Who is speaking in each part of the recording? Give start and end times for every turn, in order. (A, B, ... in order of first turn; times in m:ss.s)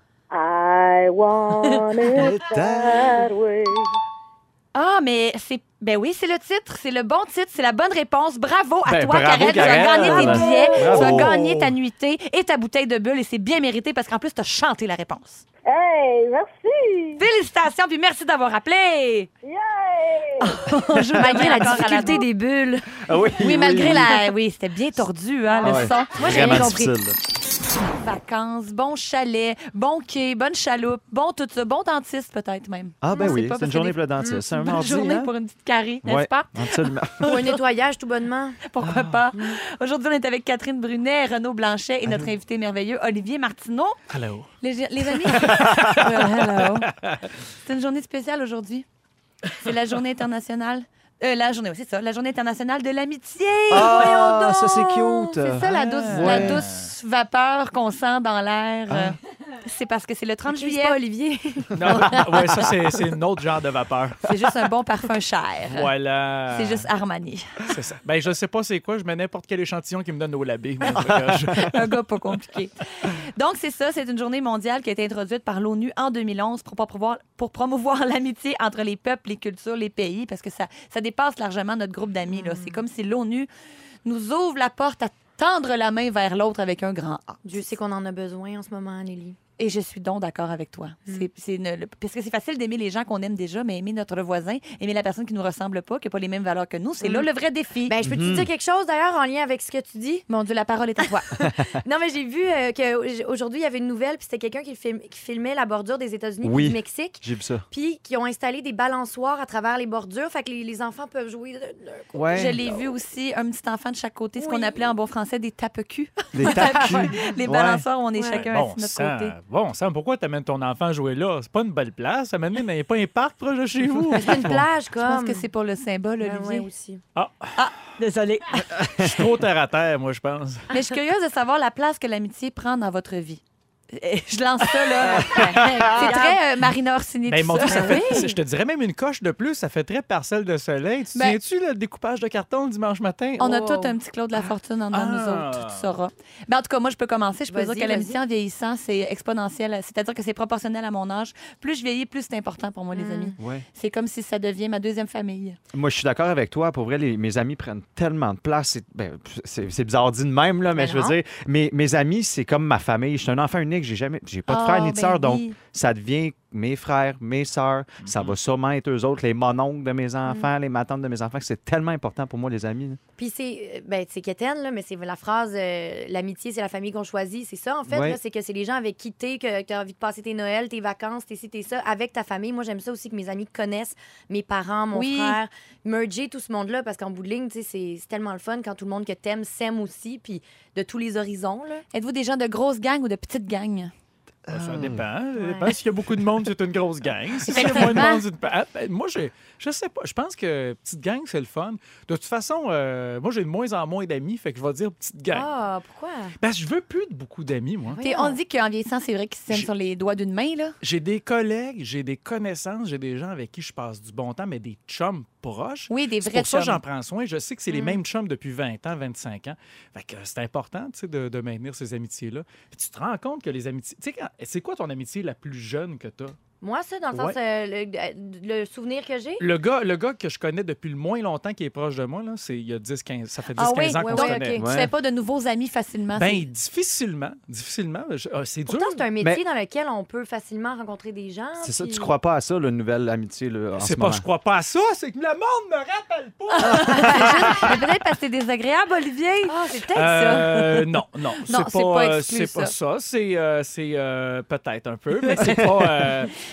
0:00.3-0:03.9 A
0:02.1-0:03.2 B
0:04.7-0:15.4 C
0:08.8-0:11.7 B
0:10.0-0:11.1 A
0:15.6-0:17.2 A
0:17.2-0:19.3 C
0:19.4-0:20.6 A
0:20.4-0:22.2 C
0:21.1-0:21.5 B
0:21.1-0:24.0 D
0:23.0-0:24.2 B
0:23.4-0:26.8 C
0:25.5-0:26.9 D
0:25.6-0:27.2 B
0:27.8-0:37.6 C
0:33.0-0:35.3 B
0:33.1-0:33.4 D
0:34.2-0:34.4 D
0:36.0-0:37.4 B
0:37.2-0:38.6 D
0:38.6-0:44.0 C
0:38.8-0:39.3 B
0:44.1-0:44.5 E
0:44.6-0:46.9 C
0:45.4-0:46.0 E
0:45.5-0:46.0 B
0:46.8-0:47.2 E
0:47.6-0:48.8 C
0:49.5-0:54.4 C
0:53.7-0:56.6 B
0:53.7-0:55.2 D
0:55.3-1:01.0 C
0:55.8-0:56.9 E
0:58.9-0:59.2 B
1:00.5-1:02.4 D
1:01.7-1:04.2 E
1:04.2-1:05.9 C
1:05.7-1:06.8 E
1:06.5-1:07.6 C
1:07.6-1:11.8 E
1:10.9-1:11.6 B
1:11.5-1:23.5 C
1:22.3-1:22.8 D
1:24.0-1:27.7 C
1:27.4-1:29.4 D
1:29.6-1:38.0 C
1:37.0-1:37.3 D
1:37.9-1:40.2 D
1:38.0-1:38.5 B
1:40.3-1:41.3 C
1:41.3-1:52.2 D
1:41.4-1:41.8 B
1:46.4-1:47.6 B
1:52.1-1:52.7 B
1:52.3-1:59.3 C
1:54.4-1:54.9 D
1:56.3-1:57.8 B
1:58.2-1:58.4 D
1:58.3-2:04.6 E
2:04.1-2:05.5 D
2:05.0-2:06.7 C
2:06.2-2:07.0 D
2:07.2-2:07.6 E
2:07.6-2:08.8 C
2:08.6-2:10.7 E
2:10.7-2:18.3 C
2:15.1-2:16.1 B
2:15.2-2:16.4 D
2:17.3-2:23.6 E
2:17.6-2:18.3 D
2:23.4-2:35.6 C
2:23.4-2:23.9 D
2:24.9-2:25.9 E
2:27.5-2:28.2 D
2:32.9-2:33.4 D
2:33.4-2:33.6 B
2:35.7-2:53.0 B
2:40.7-2:41.2 D
2:44.5-2:45.6 C
2:48.0-2:48.3 E
2:53.2-3:11.8 D
2:57.9-2:58.2 B
3:04.9-3:05.4 C
3:11.9-3:13.9 C
3:14.5-3:15.1 B
3:14.5-3:25.5 E
3:15.4-3:15.7 D
3:17.5-3:18.2 C
3:25.3-3:26.3 D
3:26.4-3:28.0 E
3:27.9-3:28.4 D
3:28.0-3:30.7 C
3:30.8-3:46.4 E
3:35.9-3:36.8 C
3:37.7-3:38.0 D
3:46.6-3:49.4 D
3:47.1-3:47.4 E
3:49.4-3:54.6 E
3:53.6-3:56.5 C
3:54.0-3:54.6 D
3:54.6-3:54.9 B
3:56.2-3:59.0 E
3:58.7-4:02.1 D
4:01.6-4:04.2 B
4:03.8-4:07.2 E
4:06.6-4:09.6 C
4:06.7-4:07.7 B
4:06.8-4:07.7 D
4:09.4-4:10.5 D
4:09.9-4:16.3 E
4:11.5-4:12.7 C